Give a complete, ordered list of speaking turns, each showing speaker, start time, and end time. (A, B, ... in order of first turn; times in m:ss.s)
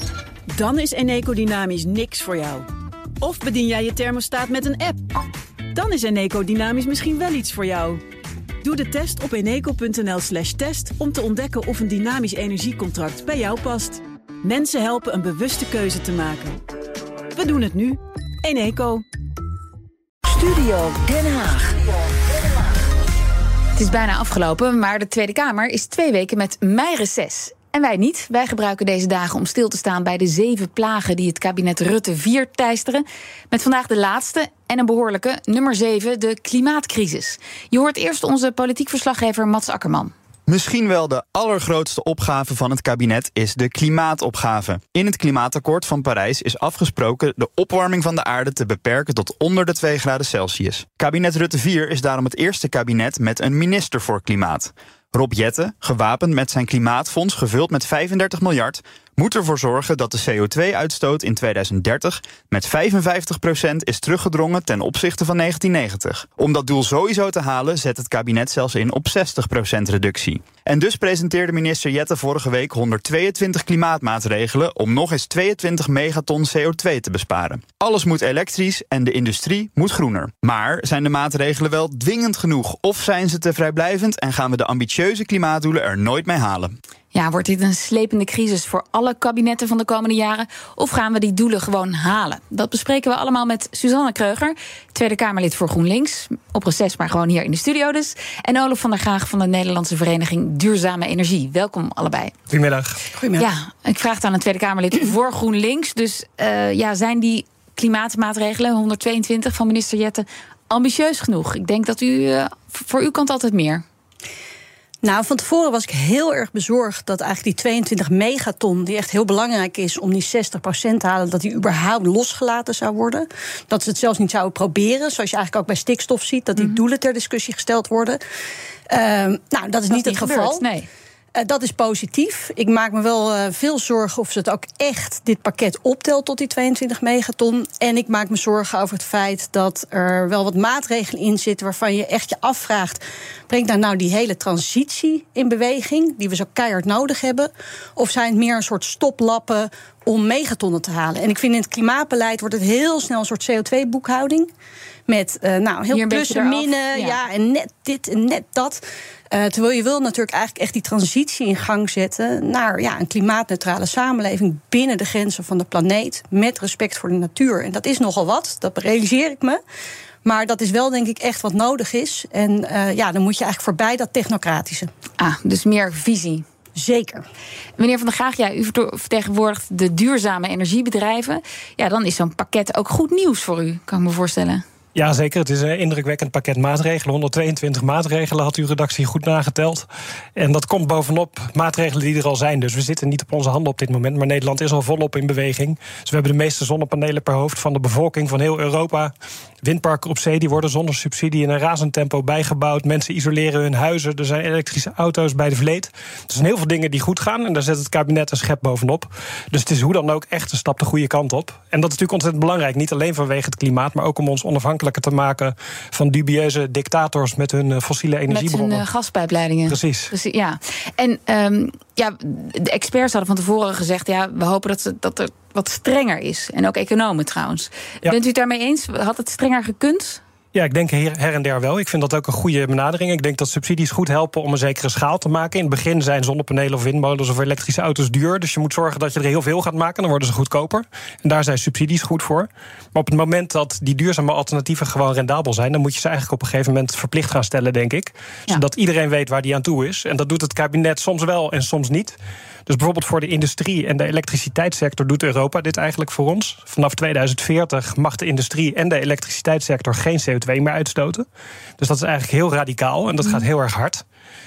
0:00.5-0:02.7 A
0:03.2-0:05.1 A
0:05.7-0:08.0 A
0:08.6-0:16.6 A
0:17.4-0:19.0 A
0:20.3-0:21.9 A
0:23.8-0:40.1 B
0:40.5-1:26.8 C
1:27.1-1:42.3 B
1:42.5-1:43.0 D
1:43.1-1:43.5 E
1:43.4-1:53.8 B
1:55.0-2:08.2 E
2:08.9-2:10.6 E
2:09.9-2:10.9 B
2:11.4-2:34.5 E
2:35.1-2:49.6 E
2:35.9-2:37.2 B
2:50.2-2:54.9 E
2:55.2-2:56.4 B
2:56.8-2:57.2 E
2:57.8-3:04.6 B
3:05.0-3:38.8 D
3:38.3-3:50.2 B
3:39.7-3:40.1 D
3:50.5-4:21.2 D
4:21.8-4:24.0 D